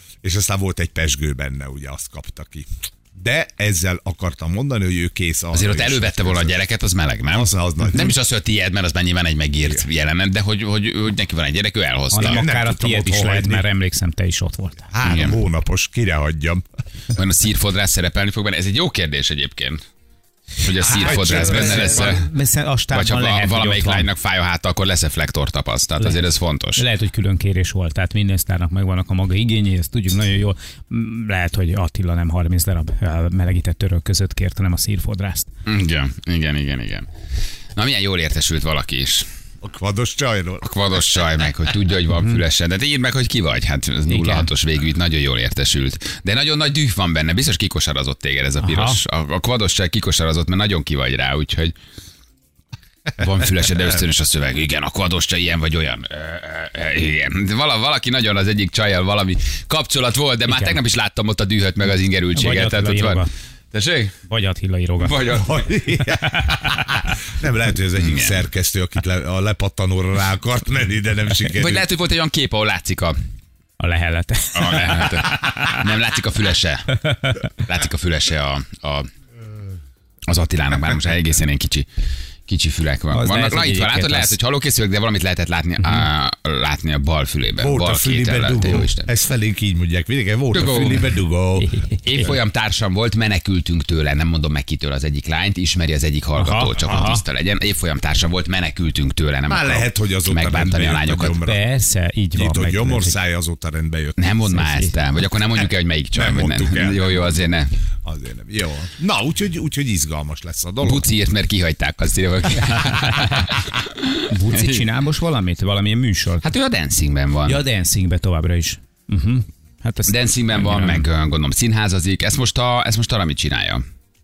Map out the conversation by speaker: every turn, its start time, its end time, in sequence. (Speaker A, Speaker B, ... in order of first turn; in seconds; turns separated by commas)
Speaker A: 0.2-6.5, Speaker B: 5.5-12.4, Speaker A: 7.3-8.2, Speaker C: 12.1-14.9, Speaker A: 12.2-13.6, Speaker A: 14.9-16.6, Speaker B: 15.0-15.4, Speaker B: 17.1-19.8, Speaker B: 20.6-22.3, Speaker A: 20.8-22.2, Speaker C: 21.1-24.1, Speaker B: 22.9-26.8, Speaker C: 26.8-35.5, Speaker B: 35.6-37.1, Speaker B: 37.7-39.3, Speaker A: 39.6-40.7, Speaker B: 40.6-51.7, Speaker C: 44.1-44.5, Speaker C: 48.6-49.0, Speaker B: 53.2-64.1, Speaker C: 60.5-60.8, Speaker C: 62.3-63.3, Speaker C: 64.2-65.2, Speaker B: 65.0-65.5, Speaker A: 65.3-71.8, Speaker B: 68.0-68.4, Speaker B: 71.5-73.2, Speaker C: 73.8-75.8, Speaker B: 74.5-77.0, Speaker C: 77.1-77.3, Speaker B: 77.6-79.1, Speaker B: 80.3-81.9, Speaker B: 82.5-89.1, Speaker C: 83.1-84.3, Speaker A: 87.6-91.7, Speaker B: 90.5-91.1, Speaker C: 91.6-92.0, Speaker B: 92.0-101.4, Speaker C: 96.4-97.2, Speaker A: 99.5-101.6, Speaker C: 101.4-103.2, Speaker A: 102.3-104.3, Speaker B: 104.2-107.7, Speaker C: 104.5-104.9, Speaker A: 106.1-107.4, Speaker A: 108.0-111.0, Speaker B: 110.8-114.8, Speaker C: 114.3-116.4, Speaker B: 116.4-117.6, Speaker C: 117.5-121.0, Speaker B: 120.0-123.8